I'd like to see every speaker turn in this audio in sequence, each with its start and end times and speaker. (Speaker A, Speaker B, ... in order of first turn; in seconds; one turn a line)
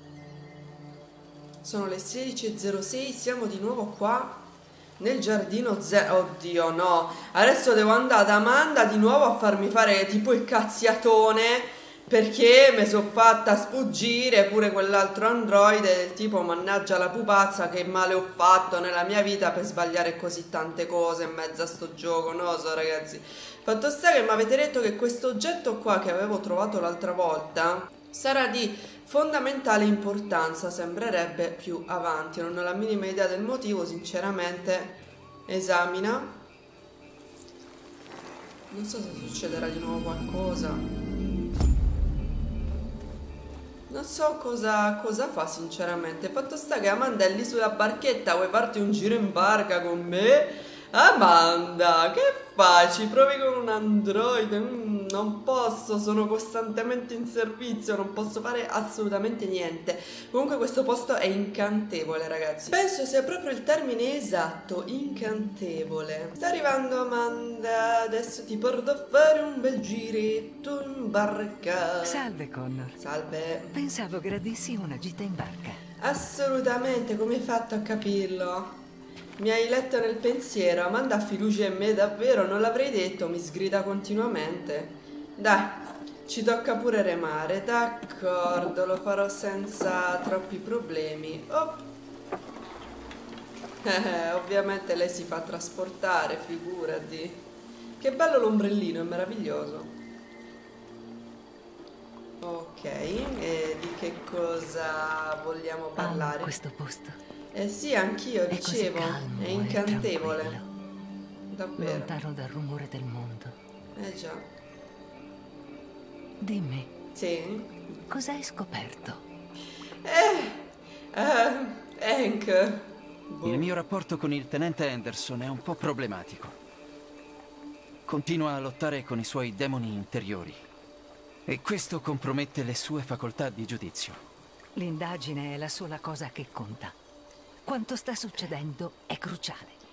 Speaker A: 1.6-4.5
Speaker A: 5.0-36.4
Speaker A: 38.7-40.9
Speaker A: 43.9-72.3
Speaker B: 72.0-73.0
Speaker A: 73.0-73.8
Speaker B: 73.7-75.8
Speaker A: 76.0-78.8
Speaker A: 79.4-91.9
Speaker A: 93.8-97.5
Speaker A: 98.0-99.9
Speaker A: 102.4-106.6
Speaker B: 106.0-107.2
Speaker A: 107.5-110.6
Speaker B: 108.5-110.6
Speaker A: 111.5-112.1
Speaker B: 111.8-113.5
Speaker A: 114.0-114.5
Speaker B: 116.4-116.9
Speaker A: 117.1-118.0
Speaker B: 118.1-119.2
Speaker A: 120.0-123.7
Speaker C: 123.4-126.5
Speaker C: 128.1-130.6
Speaker C: 131.5-134.2
Speaker B: 134.8-136.9
Speaker B: 137.6-139.8